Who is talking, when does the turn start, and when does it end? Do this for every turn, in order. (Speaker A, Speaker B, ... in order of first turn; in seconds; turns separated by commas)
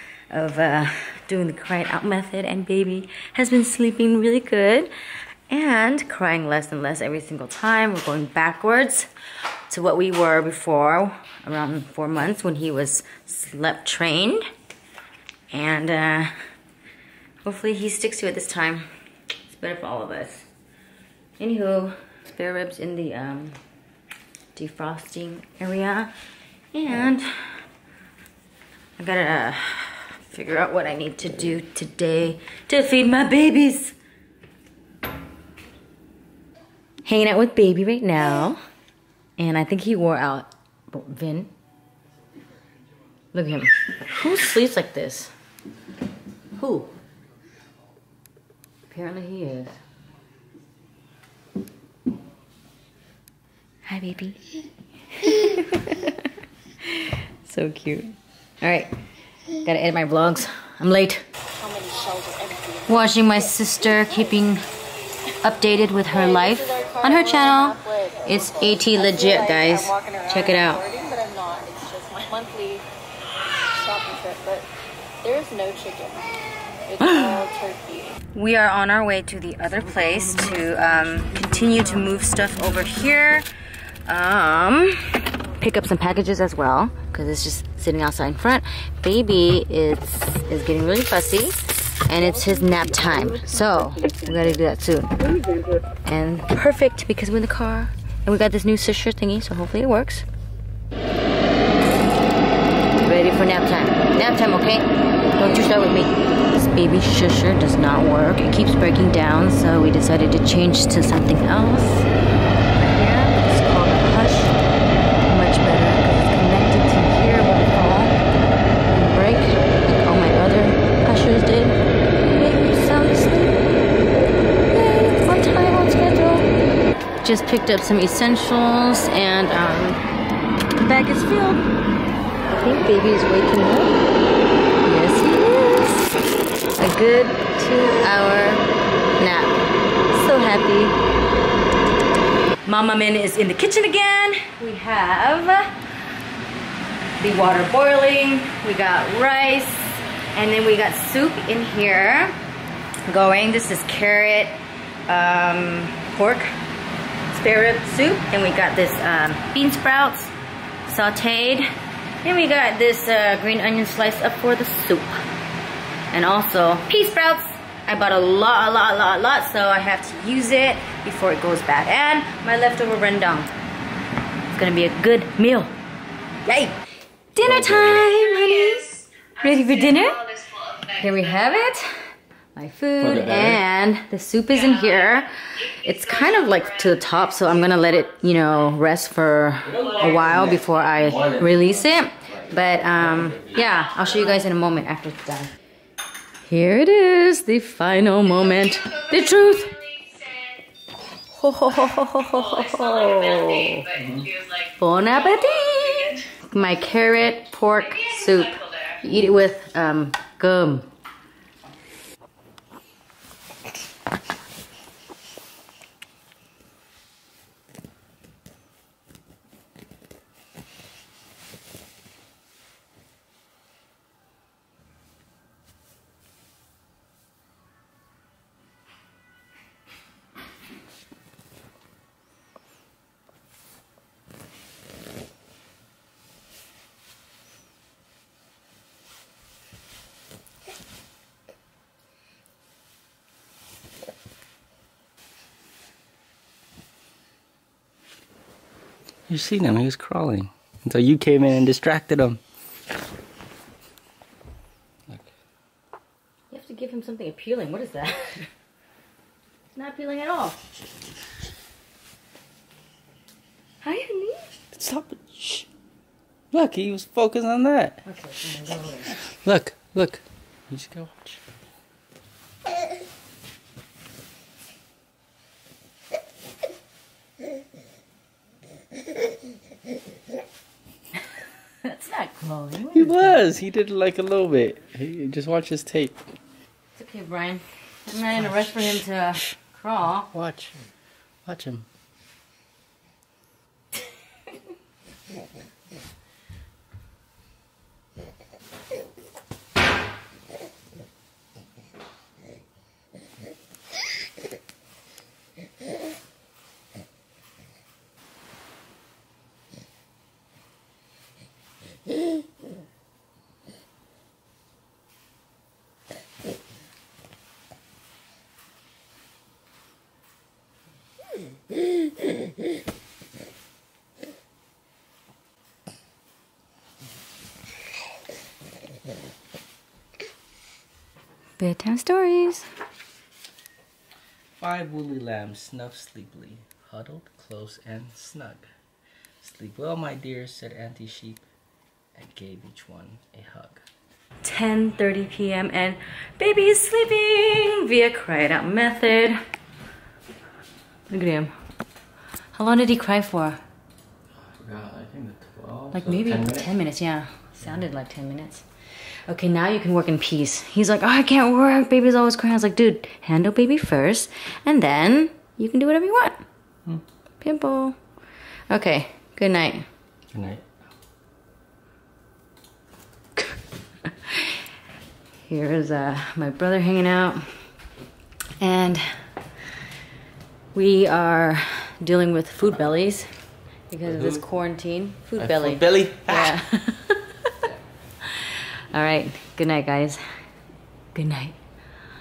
Speaker A: 0.3-4.9, Speaker A: 5.5-9.1, Speaker A: 9.7-14.4, Speaker A: 15.5-16.3, Speaker A: 17.4-18.9, Speaker A: 19.5-20.5, Speaker A: 21.4-23.6, Speaker A: 24.5-26.1, Speaker A: 26.7-27.5, Speaker A: 29.0-34.0, Speaker A: 37.0-38.6, Speaker A: 39.4-41.5, Speaker A: 43.3-45.3, Speaker A: 46.6-46.9, Speaker A: 48.9-49.8, Speaker A: 53.9-54.5, Speaker A: 55.1-56.3, Speaker A: 56.8-58.9, Speaker A: 59.5-61.2, Speaker B: 61.6-63.0, Speaker A: 62.9-64.6, Speaker A: 65.4-70.8, Speaker B: 66.2-72.8, Speaker B: 73.7-74.7, Speaker B: 75.2-76.2, Speaker B: 76.9-78.2, Speaker A: 77.0-77.4, Speaker A: 78.3-83.5, Speaker A: 84.0-95.2, Speaker A: 96.0-100.2, Speaker A: 103.0-112.1, Speaker A: 112.8-114.6, Speaker A: 115.2-118.2, Speaker A: 118.9-123.7, Speaker A: 124.7-126.5, Speaker A: 127.2-130.0, Speaker A: 130.8-131.6, Speaker A: 132.5-134.0, Speaker A: 134.8-136.1, Speaker A: 136.8-138.6, Speaker A: 139.2-139.5, Speaker A: 140.1-141.0, Speaker A: 142.6-145.7, Speaker A: 147.2-152.3, Speaker A: 153.1-156.5, Speaker A: 157.3-160.3, Speaker A: 160.8-161.7, Speaker A: 162.2-165.2, Speaker A: 166.1-173.5, Speaker A: 174.5-175.7, Speaker A: 176.4-176.8, Speaker A: 177.3-182.0, Speaker C: 177.4-178.0, Speaker B: 180.4-180.8, Speaker A: 182.6-195.5, Speaker C: 183.0-183.6, Speaker C: 189.7-193.6, Speaker A: 196.4-199.8, Speaker B: 199.8-200.6, Speaker A: 201.3-203.9, Speaker B: 202.6-204.7, Speaker C: 203.9-204.3, Speaker A: 204.8-210.9, Speaker B: 205.7-206.1, Speaker B: 208.6-208.8, Speaker C: 249.3-252.4, Speaker A: 256.5-258.5, Speaker A: 259.7-260.6, Speaker A: 263.8-264.5, Speaker C: 264.7-265.7, Speaker C: 266.5-268.0, Speaker A: 268.0-269.3, Speaker C: 269.3-271.4, Speaker A: 281.8-283.4, Speaker C: 282.9-286.2, Speaker A: 286.9-290.3, Speaker C: 288.5-288.7, Speaker C: 290.3-290.8, Speaker C: 291.4-291.9, Speaker A: 331.6-332.7, Speaker C: 334.6-338.6, Speaker C: 339.4-341.4, Speaker C: 342.1-343.8, Speaker A: 344.4-349.4, Speaker A: 351.1-351.5, Speaker A: 352.5-353.6, Speaker C: 354.4-356.7, Speaker A: 355.9-358.6, Speaker A: 359.3-366.4, Speaker A: 367.4-368.0, Speaker A: 368.7-369.9, Speaker C: 370.3-370.7, Speaker A: 374.0-374.6, Speaker A: 375.4-377.5, Speaker A: 378.6-379.2, Speaker A: 380.7-383.3, Speaker A: 383.9-387.6, Speaker C: 384.0-384.4, Speaker C: 385.4-386.6, Speaker A: 388.2-390.2, Speaker A: 391.1-391.6